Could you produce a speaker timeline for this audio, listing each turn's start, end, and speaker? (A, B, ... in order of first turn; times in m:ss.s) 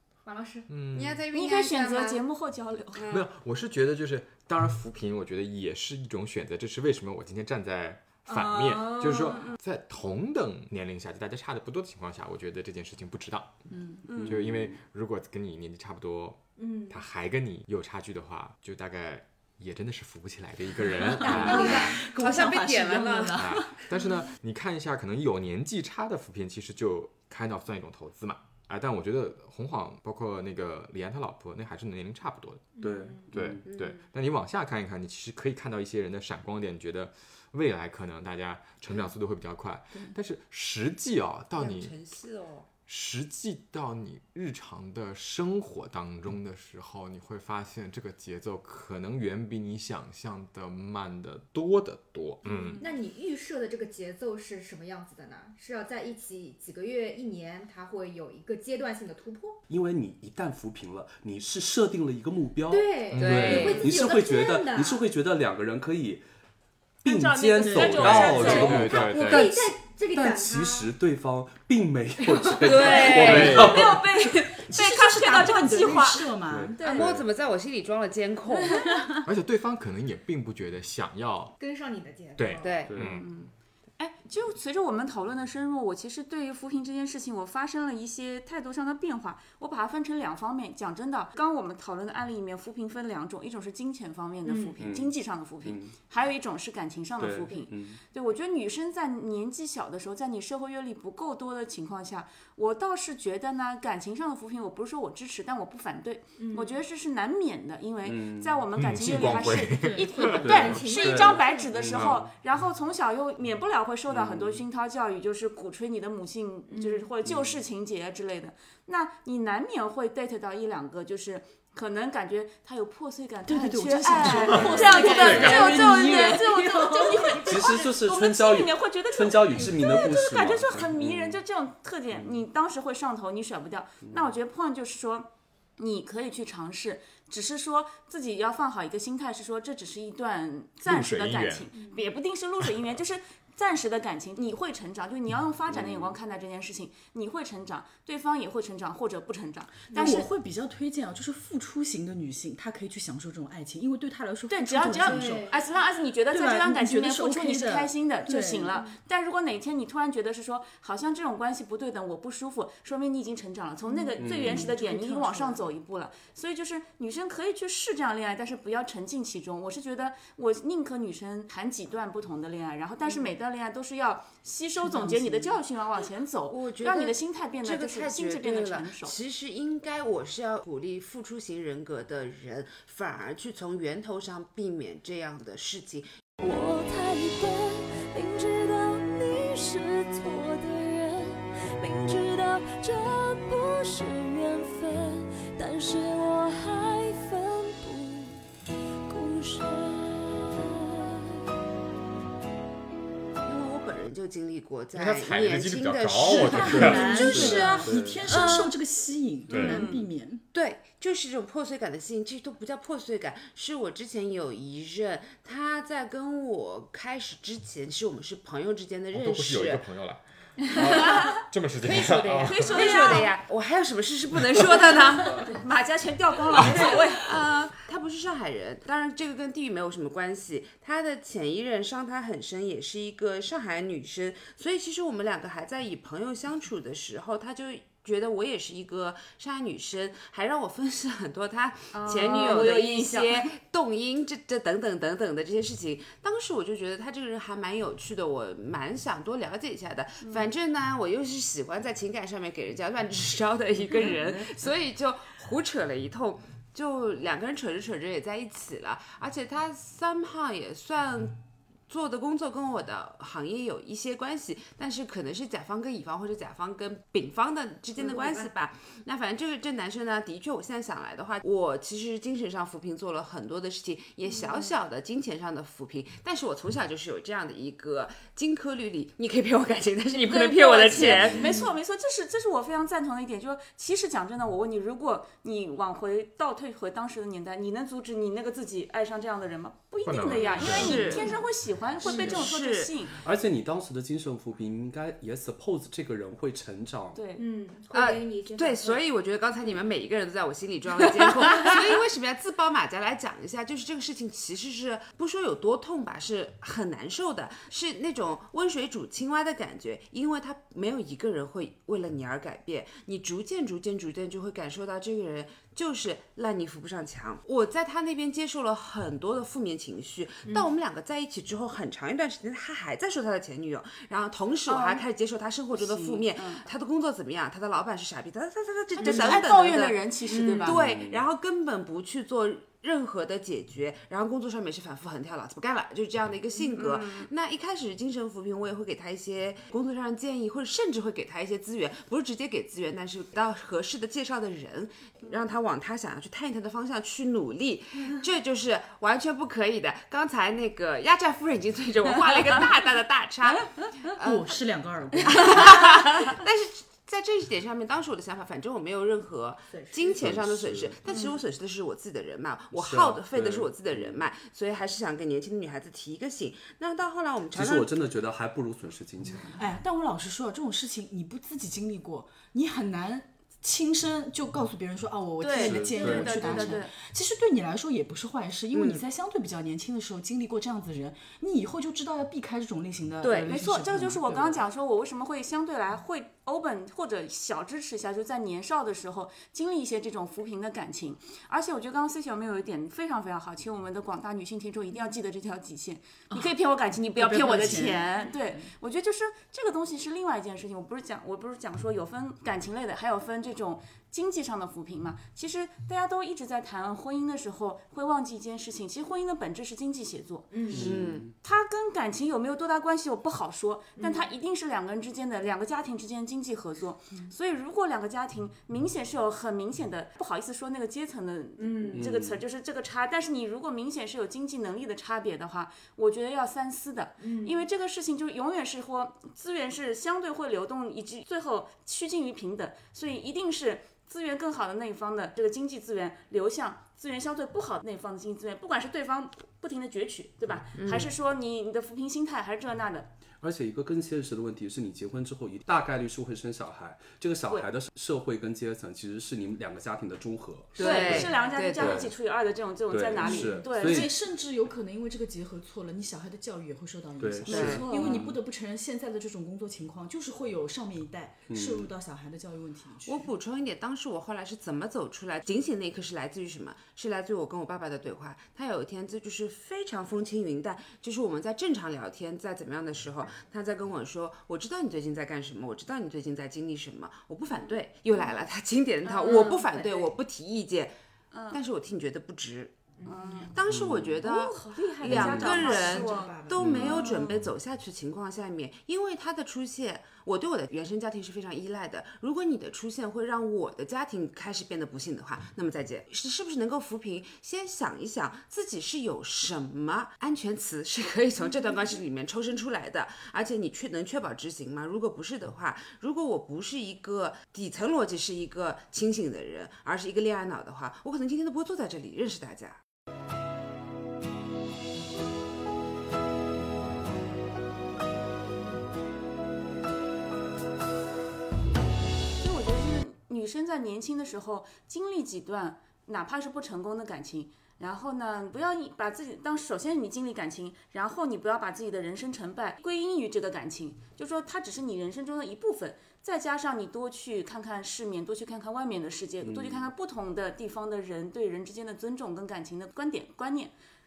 0:00.2-0:00.7 A
0:00.7-0:01.2 B
0:00.9-0:02.2 C
0:01.3-0:03.1 D
0:02.9-0:03.3 C
0:03.1-0:22.0 B
0:08.3-0:09.5 A
0:09.2-0:09.6 D
0:13.7-0:14.1 E
0:14.1-0:14.4 D
0:14.2-0:14.8 F
0:16.6-0:17.0 A
0:20.8-0:23.8 E
0:21.2-0:22.0 A
0:21.3-0:23.6 C
0:23.4-0:32.7 B
0:32.8-0:33.3 A
0:32.8-0:33.7 F
0:33.3-0:42.0 B
0:33.6-0:34.0 C
0:41.5-0:42.7 C
0:42.9-0:52.8 B
0:52.8-0:59.6 A
0:59.7-1:06.2 F
1:02.7-1:05.0 A
1:03.1-1:03.8 B
1:03.2-1:04.0 C
1:07.0-1:09.0 D
1:07.0-1:14.3 F
1:07.6-1:08.6 E
1:07.9-1:09.5 B
1:08.2-1:10.9 A
1:12.3-1:12.7 A
1:12.6-1:13.7 C
1:12.6-1:17.2 D
1:13.0-1:14.0 B
1:14.6-1:16.8 E
1:16.5-1:17.2 F
1:16.8-1:19.1 C
1:19.2-1:21.6 B
1:21.6-1:22.9 A
1:22.4-1:23.3 B
1:22.6-1:23.0 C
1:22.9-1:23.3 F
1:23.0-2:30.3 D
1:34.4-1:34.8 A
1:34.8-1:36.0 F
1:37.2-1:38.0 F
1:46.4-1:46.8 A
1:48.0-1:48.6 F
1:48.8-1:50.8 B
1:49.8-1:51.8 A
1:50.4-1:52.3 F
1:54.1-1:54.6 F
1:56.7-1:57.1 A
1:57.2-1:57.6 F
2:03.5-2:07.5 E
2:04.3-2:05.7 B
2:04.7-2:07.8 A
2:07.4-2:11.4 F
2:09.6-2:10.1 A
2:12.1-2:12.4 F
2:14.0-2:14.3 F
2:20.8-2:21.7 B
2:21.7-2:22.1 A
2:25.7-2:26.2 F
2:29.9-2:35.5 E
2:34.5-2:59.2 D
2:35.0-2:35.6 A
2:36.3-2:38.8 E
2:43.9-2:44.7 A
2:44.2-2:44.7 F
2:44.4-2:45.6 E
2:54.8-2:55.5 C
2:56.5-3:06.1 C
3:06.4-3:18.4 G
3:19.1-3:21.4 G
3:23.4-3:28.7 C
3:24.9-3:27.6 B
3:26.2-3:30.4 E
3:26.9-3:28.2 F
3:29.5-3:29.8 B
3:29.6-3:30.1 D
3:30.5-3:39.9 C
3:39.1-3:43.0 B
3:40.8-3:41.4 D
3:41.8-3:45.5 C
3:42.5-3:43.3 D
3:42.8-3:43.2 A
3:45.2-3:47.4 D
3:46.6-4:41.6 C
4:01.9-4:03.5 D
4:10.2-4:10.5 D
4:28.0-4:28.5 A
4:34.3-4:34.7 D
4:40.2-4:53.2 D
4:50.1-4:51.2 B
4:50.6-4:51.4 C
4:50.6-4:51.3 A
4:52.0-4:53.0 C
4:53.2-4:57.2 F
4:57.2-4:57.4 D
4:57.4-4:59.0 A
4:57.9-5:54.6 C
5:24.7-5:25.0 D
5:25.7-5:26.7 D
5:29.0-5:30.8 D
5:29.1-5:29.4 E
5:30.3-5:30.7 A
5:30.6-5:31.2 F
5:36.6-5:37.3 D
5:54.2-5:55.8 E
5:55.2-6:07.9 C
5:59.7-6:00.2 A
6:00.2-6:01.0 F
6:02.7-6:04.2 F
6:07.5-6:09.6 F
6:09.6-6:24.6 E
6:15.4-6:16.9 D
6:15.6-6:16.8 F
6:18.7-6:19.0 C
6:23.2-6:23.5 C
6:23.5-7:23.1 D
6:36.3-6:36.6 E
6:37.1-6:38.6 E
6:50.5-6:51.0 A
6:50.7-6:51.3 C
6:50.7-6:51.3 F
6:54.0-6:54.3 A
7:01.6-7:02.1 A
7:02.0-7:02.4 F
7:07.2-7:07.6 A
7:20.8-7:21.1 C
7:23.4-7:32.1 F
7:30.8-7:32.1 C
7:30.8-7:34.1 D
7:30.9-7:31.4 A
7:32.9-7:34.1 F
7:33.2-7:43.3 E
7:37.2-7:38.4 F
7:37.5-7:38.1 C
7:37.5-7:38.2 D
7:41.5-7:41.9 F
7:43.0-8:01.0 C
7:59.0-8:00.1 D
7:59.2-8:00.0 A
8:01.3-8:01.6 D
8:01.5-8:02.8 C
8:03.0-8:03.5 A
8:03.0-8:03.6 D
8:03.4-8:32.8 C
8:03.7-8:04.2 F
8:04.2-8:07.4 D
8:05.1-8:06.6 E
8:05.1-8:05.4 F
8:06.6-8:07.0 F
8:42.4-9:03.7 D
8:59.4-8:59.9 F